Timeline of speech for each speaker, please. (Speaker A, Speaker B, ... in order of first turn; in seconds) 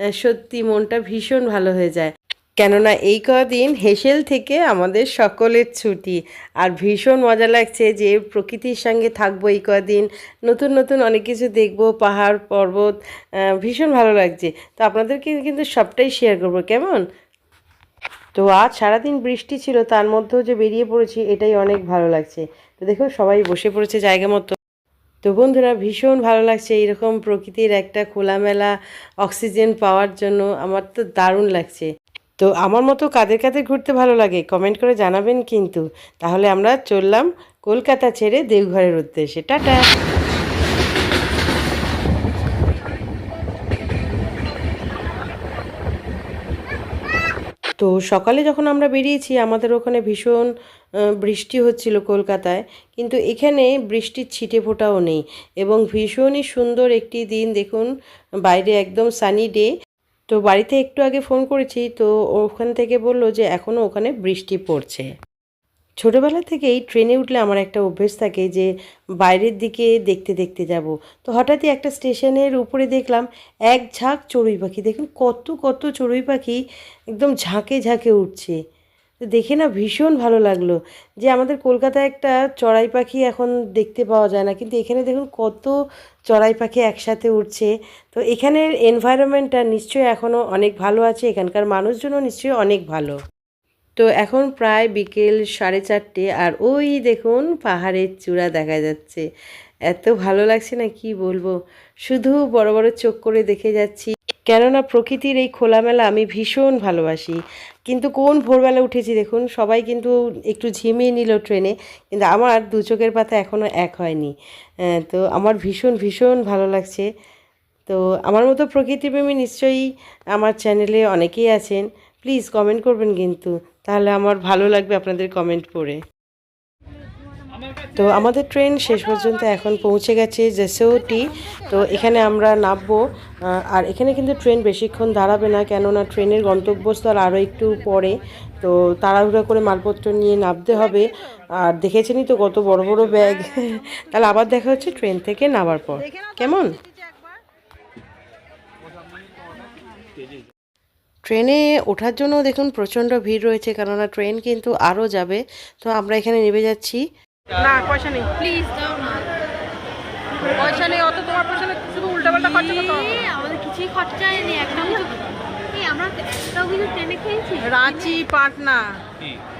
Speaker A: 0.1-12.9, 13.6-17.0, 18.3-24.6, 25.2-31.9, 32.4-39.8, 47.8-50.5, 51.2-57.9, 58.5-59.7, 60.3-65.1, 66.0-68.7, 69.2-76.6, 77.1-78.5, 79.3-85.7, 86.3-93.2, 94.0-99.2, 99.9-101.5, 102.0-114.3, 114.9-117.0, 117.9-126.0, 128.0-141.1, 141.6-146.8, 151.2-157.0
Speaker B: 146.1-147.4, 157.6-158.3, 160.6-163.3, 164.7-165.0, 167.6-169.0
Speaker C: 158.4-159.3, 162.4-168.2